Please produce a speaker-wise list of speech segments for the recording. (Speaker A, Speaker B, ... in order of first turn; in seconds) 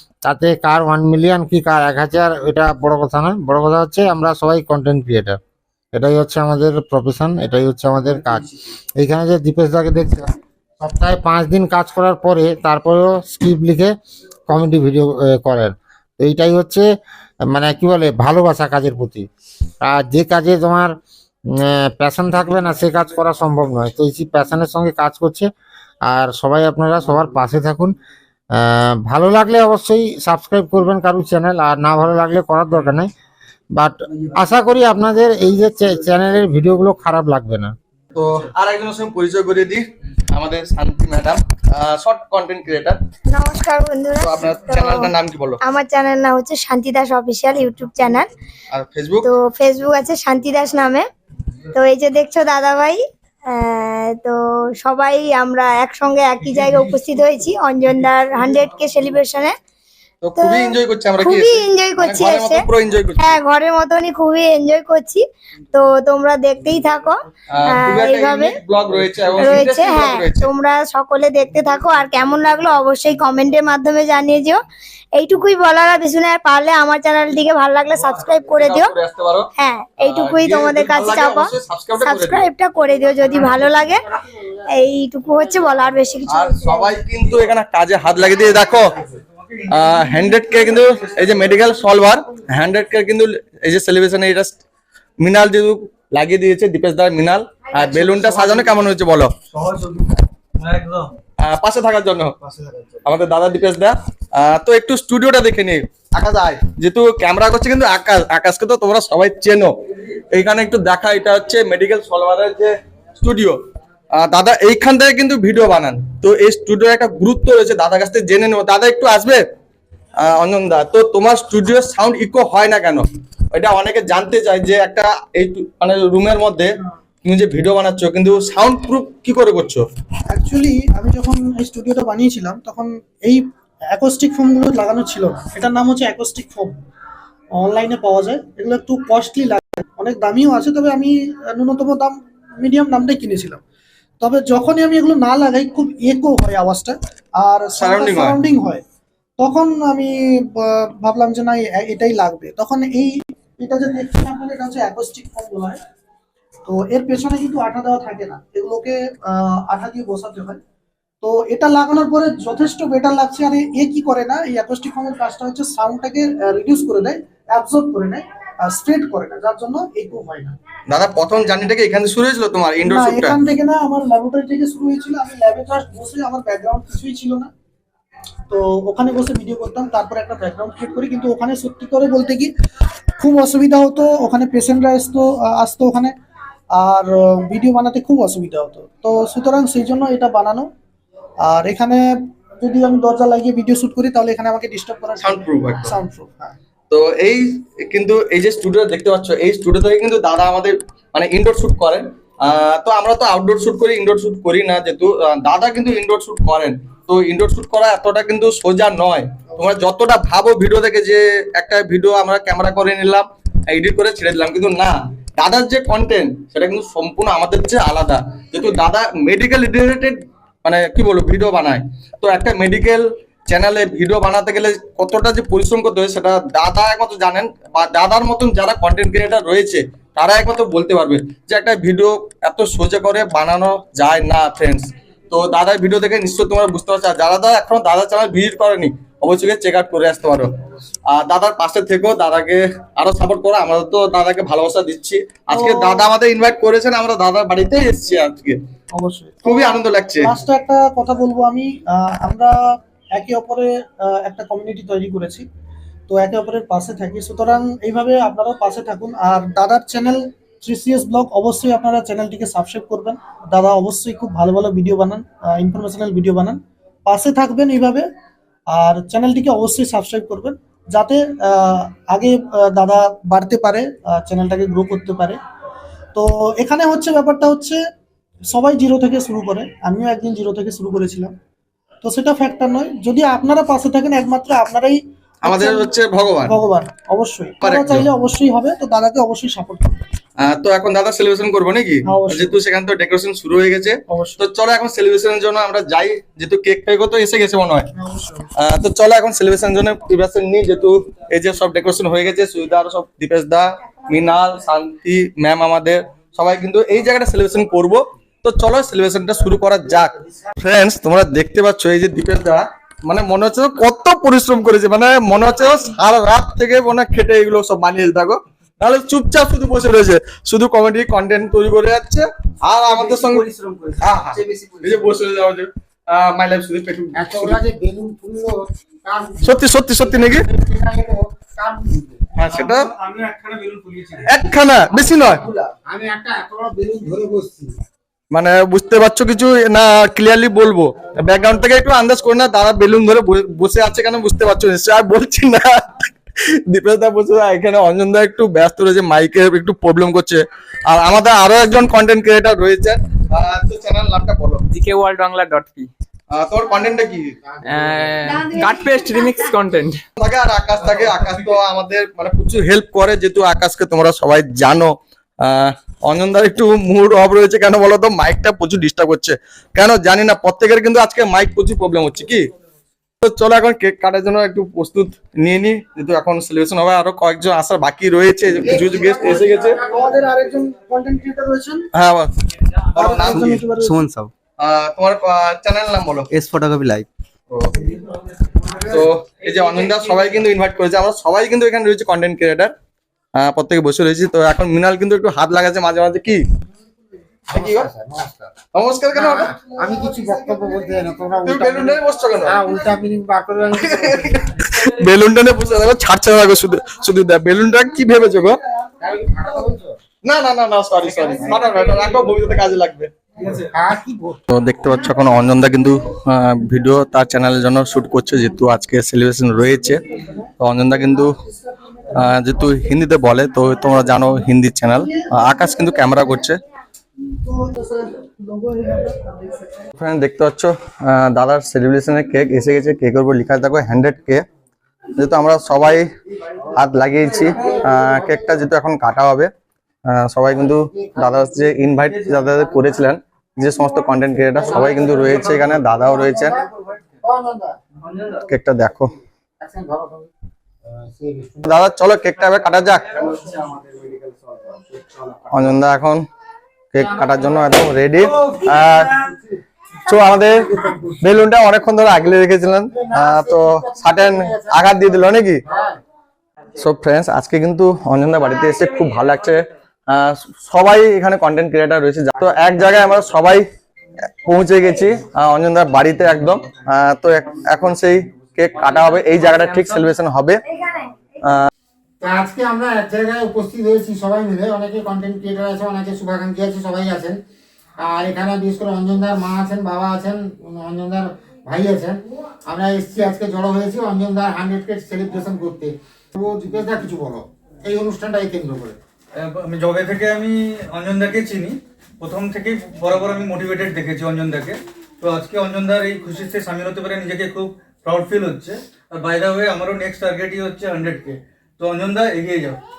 Speaker A: 0.2-5.4, 5.9-13.9, 14.5-16.9, 17.5-19.3, 19.8-20.9, 21.5-25.5, 26.1-27.9, 28.5-33.1, 33.7-37.7, 83.2-84.7, 327.1-332.2, 335.2-337.7, 378.6-380.2, 397.5-398.5, 399.1-404.4, 409.0-410.0, 413.6-414.4, 437.3-438.6, 440.5-441.5, 444.5-446.7, 447.2-447.8, 449.6-450.3, 450.8-451.8, 457.0-457.8, 462.9-466.0, 482.2-487.4, 488.0-499.0
Speaker B: 38.1-43.0, 44.2-45.6, 48.7-49.3, 60.2-63.4, 67.5-70.5, 78.5-79.5, 80.0-82.5, 86.3-89.0, 89.7-94.6, 95.2-99.3, 101.4-102.3, 103.0-109.7, 110.3-113.6, 114.1-119.4, 120.2-126.7, 127.2-129.8, 147.8-148.4, 170.9-173.3, 195.2-195.9, 196.9-240.5, 241.1-248.6, 249.4-250.3, 285.4-286.6, 287.6-288.1, 290.4-297.9, 298.6-323.4, 324.0-327.6, 329.4-330.5, 332.4-332.9, 334.2-335.4, 338.3-354.6, 356.3-357.4, 360.2-372.5, 373.2-379.8, 381.9-382.3, 382.9-383.6, 384.6-386.3, 387.5-387.8, 388.9-392.7, 393.3-396.4, 397.5-397.9, 398.7-399.6, 401.4-402.6, 403.7-408.6, 410.2-413.1, 414.5-420.0, 420.6-421.4, 422.1-426.6, 430.0-434.4, 435.2-436.1, 436.7-439.5, 440.1-446.6, 448.5-449.1, 451.6-453.2, 455.5-456.2, 456.9-459.1, 460.1-465.6, 466.8-473.6, 474.4-480.6, 481.4-481.7
Speaker C: 43.3-48.3, 49.2-51.1, 51.7-59.5, 60.4-62.7, 63.2-68.6, 69.3-74.6, 75.2-78.9, 79.6-84.0, 84.7-87.0, 480.7-481.1
Speaker D: 89.1-91.7, 100.6-101.1, 332.5-334.3, 499.3-512.8
Speaker E: 97.8-98.8, 99.5-100.2, 102.4-103.0, 322.8-325.2, 334.9-335.7, 383.3-384.3, 386.3-387.1, 388.6-389.0, 411.1-412.3, 413.4-413.7, 448.0-448.4, 453.1-455.7, 458.2-459.3
Speaker F: 130.3-136.7, 137.5-143.6, 144.2-148.8, 149.4-155.8, 156.7-160.6, 161.2-170.6, 172.8-177.5, 178.5-182.5, 183.2-186.1, 186.7-190.7, 191.4-192.0, 192.6-196.5, 245.5-246.1, 248.9-252.6, 253.1-255.4, 256.1-268.1, 268.7-275.4, 276.1-277.8, 278.5-281.3, 282.0-285.9, 286.5-290.0, 292.1-292.6, 294.1-294.4, 298.0-298.5, 379.9-381.9, 382.9-384.0, 421.3-422.2, 425.1-426.2, 427.4-429.9
Speaker G: 354.7-355.9, 357.6-360.0, 478.8-480.0